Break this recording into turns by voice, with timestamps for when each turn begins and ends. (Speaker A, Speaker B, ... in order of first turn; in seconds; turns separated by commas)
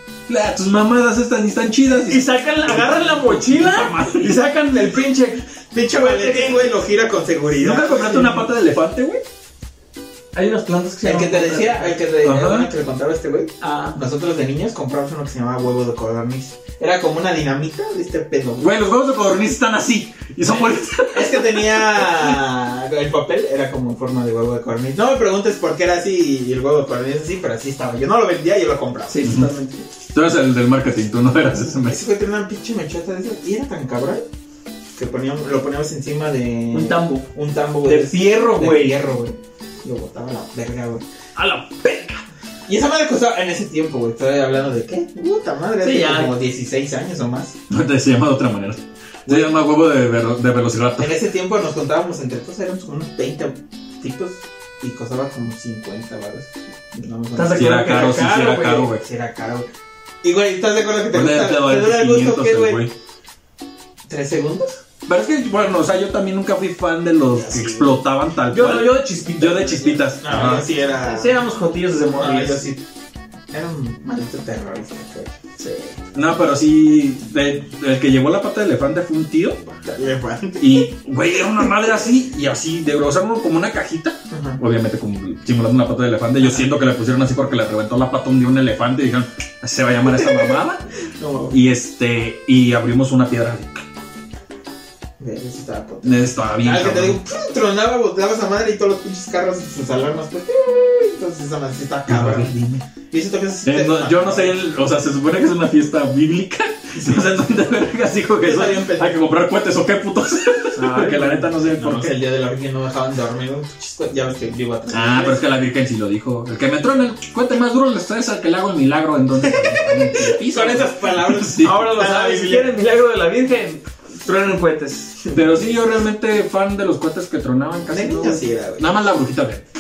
Speaker A: 0.3-4.4, Speaker B: 2.1-6.7, Speaker C: 5.7-8.1, Speaker A: 7.5-9.2, Speaker B: 7.9-8.5, Speaker B: 10.3-11.9, Speaker C: 11.0-18.7, Speaker A: 12.2-12.7, Speaker B: 13.6-14.0, Speaker A: 18.6-22.3, Speaker C: 20.5-29.2, Speaker B: 29.1-29.8, Speaker A: 29.2-29.5, Speaker A: 30.1-32.0, Speaker C: 31.9-34.2, Speaker C: 35.0-41.0, Speaker B: 36.7-37.2, Speaker B: 37.9-39.0, Speaker B: 41.4-42.2, Speaker C: 42.7-47.5, Speaker B: 45.8-46.3, Speaker A: 47.7-51.2, Speaker C: 49.2-49.5, Speaker C: 51.0-57.9, Speaker B: 57.3-58.9, Speaker A: 57.5-59.0, Speaker C: 59.0-59.7, Speaker C: 60.2-62.8, Speaker A: 61.1-62.9, Speaker C: 64.1-64.8, Speaker A: 65.1-70.7, Speaker C: 67.3-67.9, Speaker B: 68.5-70.1, Speaker C: 70.2-71.4, Speaker B: 70.9-72.7, Speaker C: 72.1-72.8, Speaker C: 73.5-75.3, Speaker B: 75.6-76.0, Speaker A: 76.1-79.7, Speaker C: 79.8-80.9, Speaker A: 80.6-90.8, Speaker C: 84.3-84.6, Speaker C: 90.2-90.6, Speaker C: 91.2-91.6, Speaker A: 91.5-93.8, Speaker C: 95.2-102.5, Speaker A: 96.0-97.2, Speaker A: 102.1-102.8, Speaker C: 103.1-104.5, Speaker A: 103.6-112.2, Speaker C: 107.0-107.4, Speaker C: 108.4-109.2, Speaker B: 110.7-111.5, Speaker C: 111.5-115.4, Speaker A: 114.9-121.8, Speaker C: 119.5-122.7, Speaker B: 121.6-125.2, Speaker A: 125.3-129.6, Speaker C: 127.9-128.9